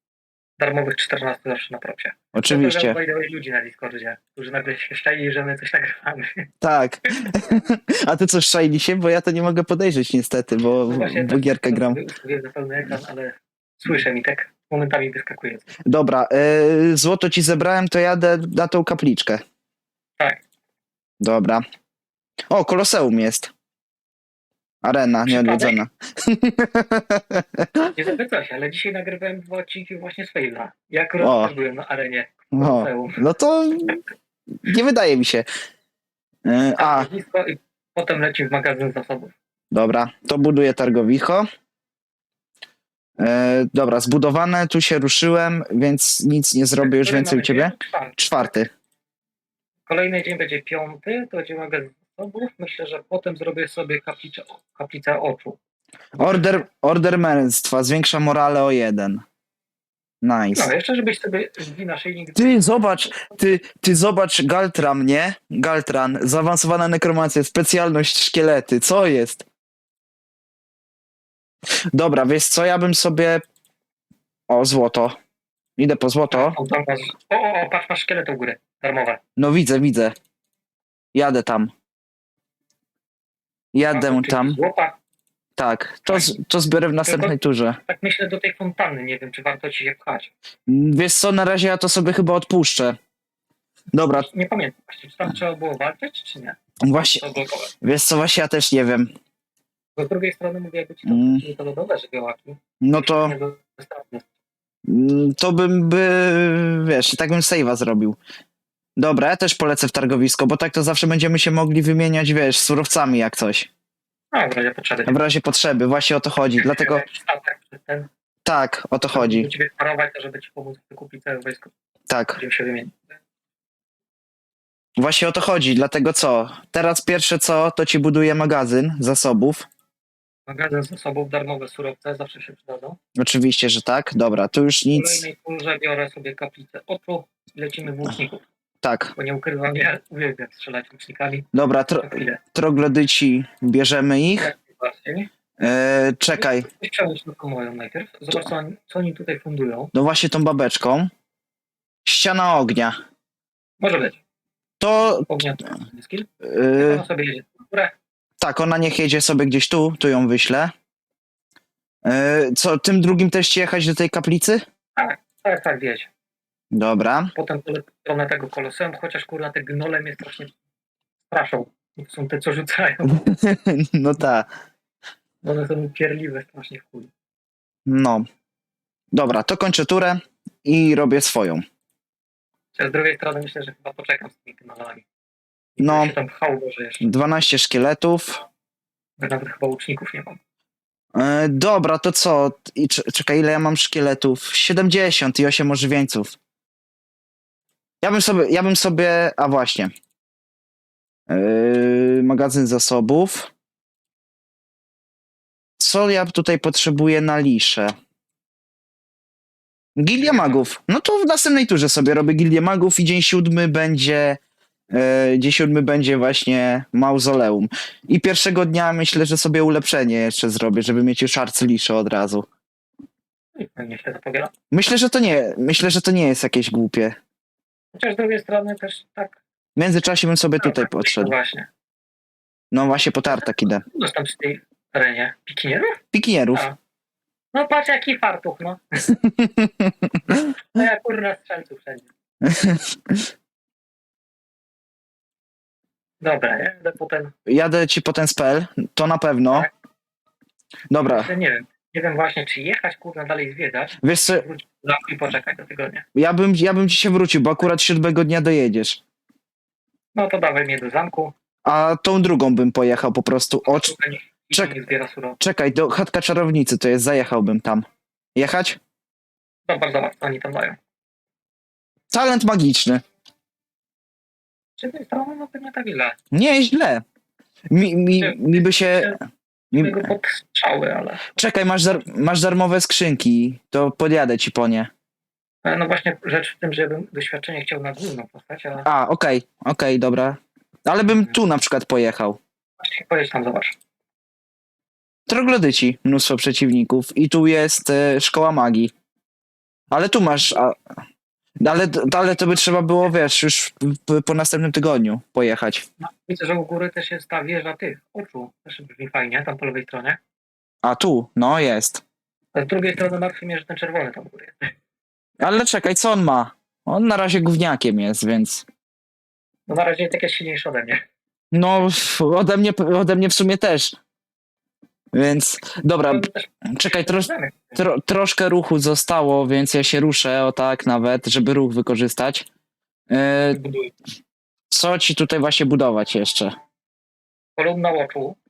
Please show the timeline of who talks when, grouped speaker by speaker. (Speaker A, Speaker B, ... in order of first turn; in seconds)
Speaker A: 0.6-6.5, 10.9-15.7, 25.3-25.8, 27.9-33.2, 36.8-39.3, 46.8-48.5, 49.9-55.6, 60.5-63.4, 76.3-79.2, 83.9-85.0, 86.1-86.3, 87.1-90.3, 94.3-97.7, 100.0-104.3, 114.3-115.2, 116.6-118.1, 119.1-121.7, 122.4-123.0, 130.5-133.0, 134.9-138.4, 139.2-141.5, 142.0-142.4, 144.4-145.3, 146.3-149.9, 153.8-154.2, 155.3-157.9, 165.0-166.1, 167.3-170.5, 171.3-173.3, 175.4-177.1, 182.7-185.1, 185.8-187.1, 189.2-190.4, 210.2-210.7, 223.6-224.5, 227.9-229.4, 230.6-231.7, 233.3-236.0, 237.5-239.2, 240.7-242.1, 246.2-247.3, 251.0-256.1, 260.1-261.3, 263.7-265.4, 269.7-270.8, 274.8-276.1, 278.2-279.2, 279.7-281.4, 285.6-288.9, 292.8-293.8, 306.0-310.2, 312.5-314.7, 319.7-321.0, 326.0-327.8, 333.5-333.9, 337.6-338.4
Speaker B: 2.3-3.0, 6.6-12.0, 15.9-19.4, 21.2-21.6, 22.5-23.5, 24.8-27.9, 31.2-31.5, 32.5-34.0, 34.6-35.5, 36.5-37.1, 39.7-41.5, 43.2-48.7, 56.2-59.2, 60.2-60.7, 62.4-69.5, 71.9-73.4, 74.5-75.2, 75.8-76.6, 79.4-80.2, 81.1-81.7, 83.7-84.6, 85.6-87.8, 90.7-93.0, 93.9-94.3, 96.8-97.2, 97.8-99.1, 101.1-101.4, 102.8-103.3, 104.8-108.2, 109.0-113.7, 115.1-117.0, 118.5-119.5, 122.1-122.4, 125.0-129.7, 133.2-135.3, 138.8-139.1, 141.5-144.5, 145.6-146.7, 149.9-151.1, 152.1-153.0, 154.8-155.3, 156.4-157.1, 158.4-160.7, 162.0-164.6, 166.7-167.3, 173.1-174.5, 177.9-178.3, 179.1-181.7, 185.8-186.2, 187.0-188.4, 191.2-196.3, 198.0-199.9, 201.3-203.5, 205.8-207.9, 210.0-214.4, 214.9-222.5, 224.7-227.2, 229.8-231.3, 232.7-233.8, 236.1-236.7, 239.2-240.5, 242.4-243.2, 247.5-249.7, 250.9-251.3, 254.0-254.4, 256.1-259.0, 261.6-263.9, 265.4-268.8, 272.1-273.0, 276.3-277.0, 277.7-279.1, 279.7-280.1, 281.4-284.9, 288.9-292.4, 295.3-298.9, 299.9-300.8, 301.6-305.9, 310.8-312.0, 315.4-318.7, 321.5-324.0, 325.1-332.5, 333.1-333.6, 334.7-336.6